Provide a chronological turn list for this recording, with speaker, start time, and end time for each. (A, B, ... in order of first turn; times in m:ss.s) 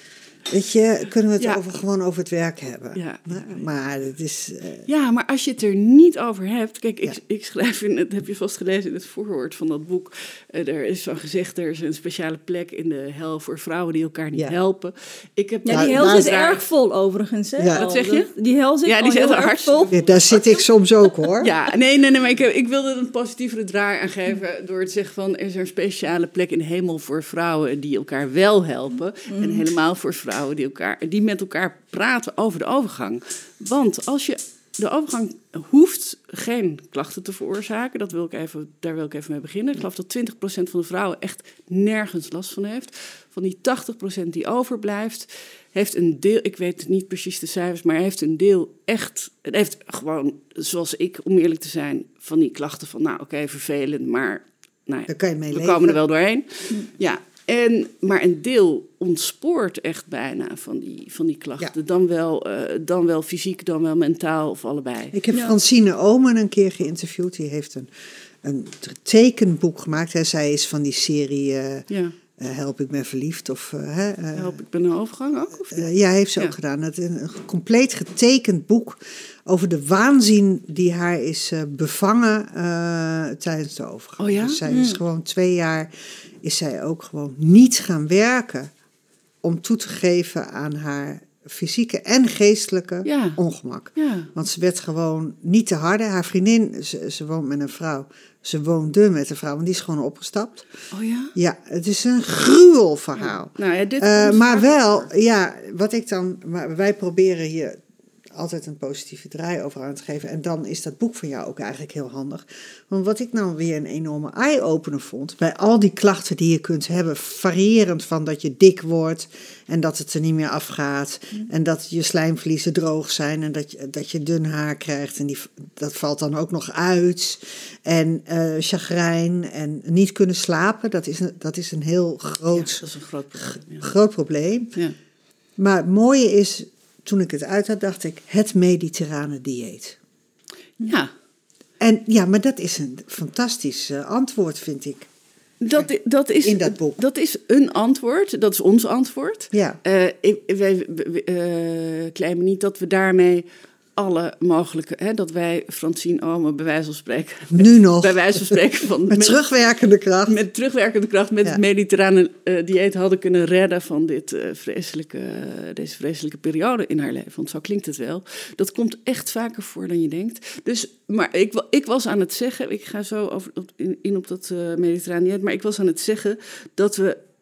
0:00.5-0:04.9 A
0:02.9-0:03.6 B
0:04.9-0:16.7 B
0:15.6-0:19.9 C
0:15.7-0:16.3 A
0:17.7-0:18.3 B
0:18.8-0:20.5 B
0:19.9-0:21.5 A
0:21.4-1:05.2 B
0:29.3-0:29.6 C
0:55.1-0:56.0 A
1:05.1-1:07.9 A
1:08.4-1:11.8 A
1:11.9-1:12.2 B
1:12.4-1:14.6 A
1:14.3-1:16.5 B
1:15.7-1:25.9 A
1:24.2-1:24.6 B
1:24.7-1:25.0 C
1:26.4-1:28.7 A
1:29.4-1:40.7 A
1:33.0-1:33.4 B
1:33.9-1:34.3 B
1:40.9-1:41.3 B
1:41.3-1:47.8 A
1:43.2-1:45.1 B
1:48.3-2:12.8 A
2:12.5-2:13.9 B
2:13.8-2:14.7 A
2:15.6-2:20.0 A
2:20.8-2:21.1 B
2:21.8-2:25.1 A
2:25.6-2:33.4 B
2:26.4-2:27.0 A
2:29.5-2:29.8 A
2:34.0-2:39.4 B
2:37.5-2:38.6 A
2:39.1-2:40.4 A
2:40.2-2:57.2 B